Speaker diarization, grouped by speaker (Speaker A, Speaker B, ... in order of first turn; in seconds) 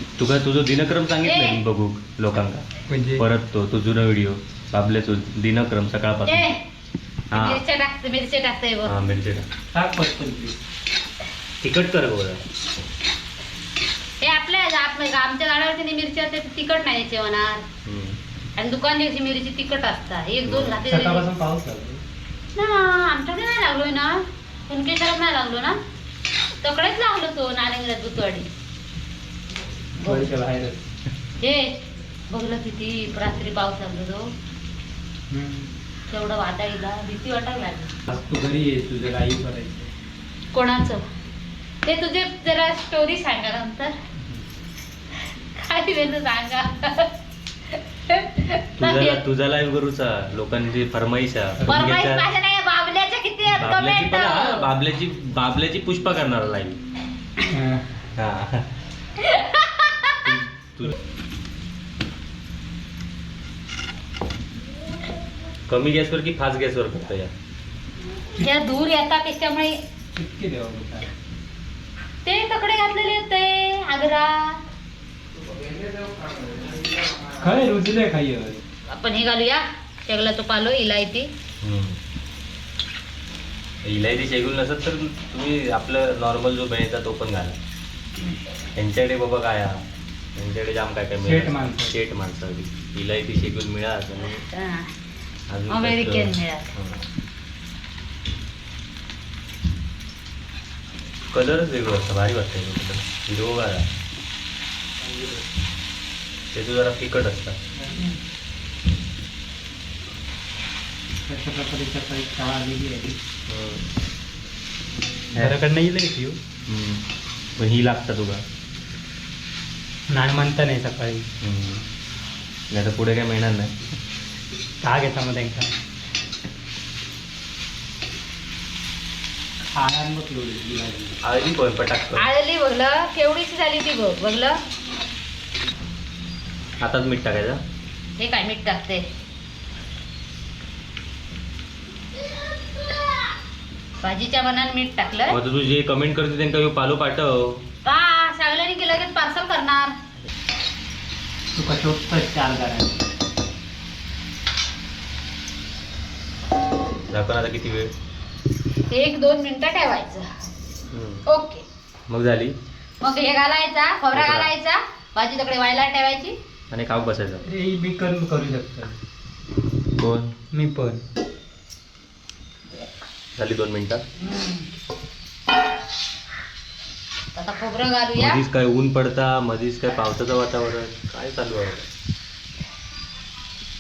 Speaker A: 0.2-6.5, 7.3-7.6, 8.8-9.5, 11.6-12.4, 17.9-18.2, 20.5-20.8, 48.8-52.3, 53.5-56.8, 58.2-58.8, 60.2-60.9, 65.7-67.3, 81.6-82.0, 83.8-87.6, 88.8-89.8, 90.4-94.5, 95.5-97.1, 101.3-103.9, 106.5-107.6, 113.5-113.9, 116.7-118.4, 121.4-121.8, 122.7-123.7, 131.2-132.3, 136.8-137.6, 145.3-147.7, 157.1-157.9, 160.9-161.2, 162.1-162.6, 164.1-164.5, 166.7-167.5, 170.0-170.3, 173.4-174.0, 178.2-181.9
Speaker B: 1.2-1.6, 6.3-6.6, 7.3-9.0, 14.2-17.6, 18.6-21.3, 22.6-25.8, 26.6-28.5, 30.0-30.3, 31.4-34.2, 36.1-37.9, 40.5-41.0, 41.8-44.0, 45.1-47.1, 47.7-49.2, 51.7-54.7, 59.2-60.3, 68.3-69.8, 72.2-74.6, 78.9-81.3, 94.3-94.9, 95.7-96.7, 132.2-134.6, 138.2-139.0, 144.0-145.4, 147.8-149.9, 158.9-160.2, 161.3-161.6, 163.0-166.3, 174.3-174.6, 177.3-178.4
Speaker C: 2.9-3.2, 9.7-10.6, 20.8-22.0, 30.0-30.8, 35.3-35.7, 38.1-39.9, 51.6-51.9, 57.4-57.9, 70.1-71.1, 77.3-78.6, 91.2-92.0, 107.8-108.2, 111.3-113.2, 115.4-116.4, 120.1-121.3, 124.8-125.7, 129.8-131.2, 151.5-153.0, 167.5-169.0, 170.5-171.0